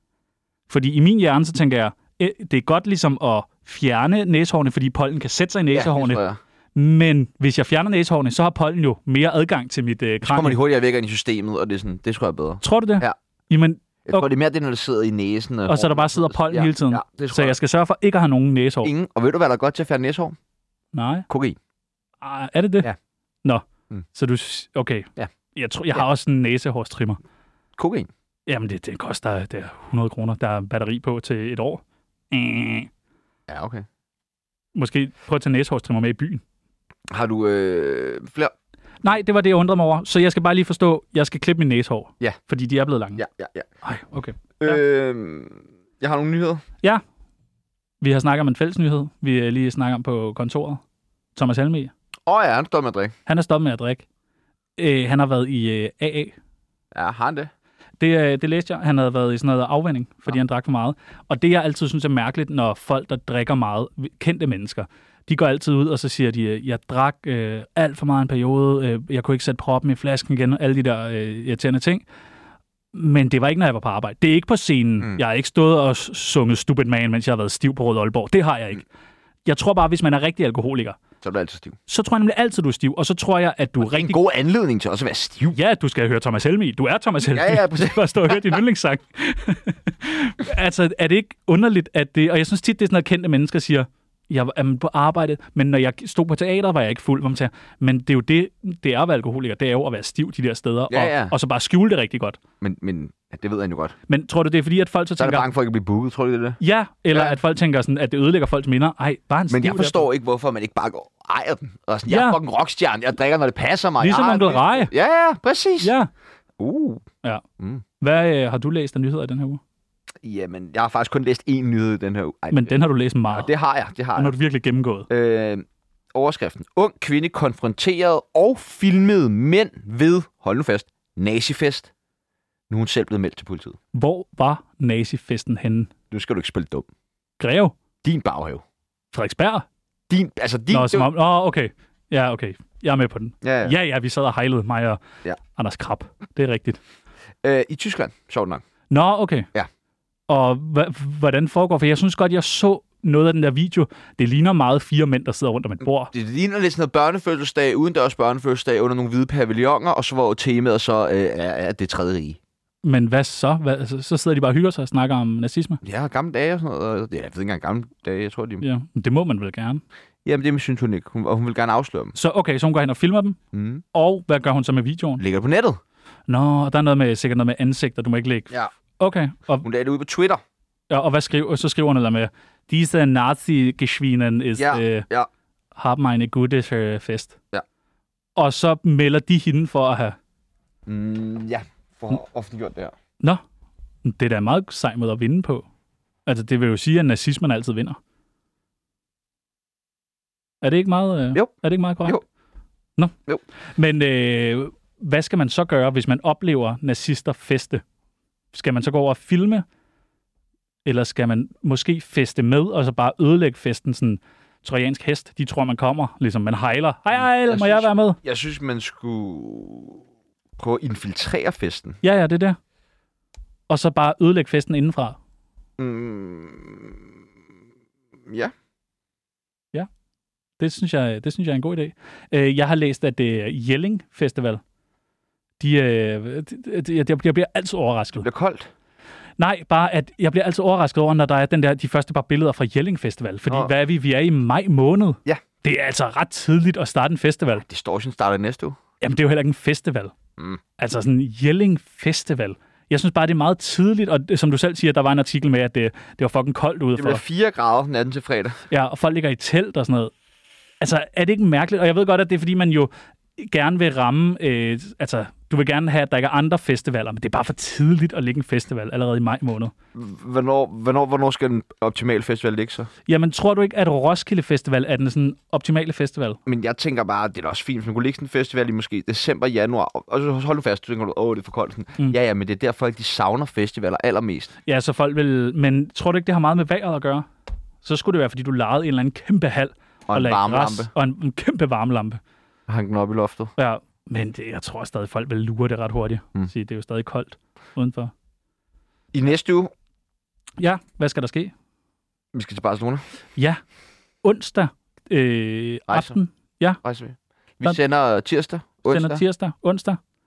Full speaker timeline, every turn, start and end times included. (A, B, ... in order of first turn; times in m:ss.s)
0:00.7-0:06.2 A
0:05.7-0:06.4 B
0:06.8-0:10.6 A
0:10.2-0:13.2 B
0:12.6-0:14.3 A
0:14.0-0:17.6 B
0:15.7-0:18.9 A
0:18.8-0:20.4 B
0:20.9-0:21.3 A
0:21.3-0:21.6 B
0:22.2-0:22.9 A
0:23.4-0:27.2 A
0:27.8-0:28.1 B
0:28.5-0:32.9 A
0:33.5-0:33.8 B
0:34.8-0:36.4 A
0:37.1-0:38.5 B
0:39.0-0:43.2 A
0:43.2-0:43.7 B
0:43.8-0:44.8 A
0:44.6-0:46.6 B
0:48.0-0:50.8 A
0:51.4-0:51.9 A
0:52.3-0:53.1 B
0:53.3-0:54.1 A
0:54.8-0:56.4 A
0:56.9-0:57.5 B
0:58.0-1:12.0 A
1:12.9-1:18.9 A
1:19.4-1:21.0 A
1:21.2-1:21.8 B
1:21.9-1:24.2 A
1:23.8-1:25.6 B
1:25.5-1:42.4 A
1:27.3-1:28.6 B
1:40.9-1:41.4 B
1:42.6-1:43.9 B
1:44.1-1:45.5 A
1:45.2-1:46.6 B
1:46.6-1:50.1 A
1:47.1-1:47.4 B
1:49.5-1:55.9 B
1:52.1-1:52.4 A
1:54.0-1:54.9 A
1:55.8-1:56.1 A
1:56.6-1:57.0 B
1:58.0-1:59.6 A
2:00.2-2:04.4 B
2:02.5-2:03.5 A
2:04.2-2:05.1 A
2:05.1-2:11.9 B
2:12.7-2:13.8 B
2:13.9-2:15.9 A
2:16.1-2:16.9 B
2:17.4-2:17.8 A
2:18.0-2:18.6 B
2:19.1-2:19.7 A
2:20.1-2:21.1 B
2:20.7-2:26.8 A
2:23.4-2:23.8 B
2:27.4-2:28.6 B
2:28.9-2:29.5 A
2:30.3-2:36.1 A
2:36.1-2:42.4 B
2:42.8-2:45.8 A
2:45.8-2:48.6 B
2:48.6-2:49.8 A
2:50.2-2:52.2 B
2:52.1-2:53.4 A
2:53.5-2:53.8 B
2:53.9-2:55.2 A
2:55.2-2:55.8 B
2:56.3-2:59.7 A
2:59.6-3:00.4 B
3:00.9-3:05.1 A
3:04.6-3:05.3 B
3:05.8-3:07.4 A
3:08.4-3:10.2 A
3:10.9-3:12.9 B
3:14.0-3:15.6 A
3:16.3-3:18.0 A
3:20.6-3:22.2 A
3:23.8-3:27.8 A
3:28.5-3:29.6 A
3:30.8-3:38.2 A
3:37.2-3:40.0 B
3:40.6-3:42.0 B
3:42.0-3:42.6 A
3:43.7-3:45.2 A
3:45.8-3:47.1 B
3:50.6-3:54.6 A
3:55.6-3:58.3 A
3:58.2-3:58.7 B
3:59.4-4:07.6 A
4:03.5-4:03.7 B
4:07.6-4:08.8 B
4:09.0-4:10.1 A
4:10.8-4:17.2 A
4:17.0-4:18.6 B
4:18.7-4:20.1 A
4:20.8-4:29.7 A
4:30.0-4:32.9 B
4:33.1-4:36.4 A
4:36.5-4:44.5 B
4:44.6-4:47.3 A
4:47.8-4:52.2 A
4:50.1-4:50.9 B
4:52.7-4:53.5 B
4:53.6-4:58.1 A
4:59.1-4:59.7 B
5:00.6-5:01.5 A
5:02.3-5:03.0 B
5:04.2-5:06.8 A
5:05.9-5:06.2 B
5:06.8-5:09.2 B
5:08.9-5:10.0 A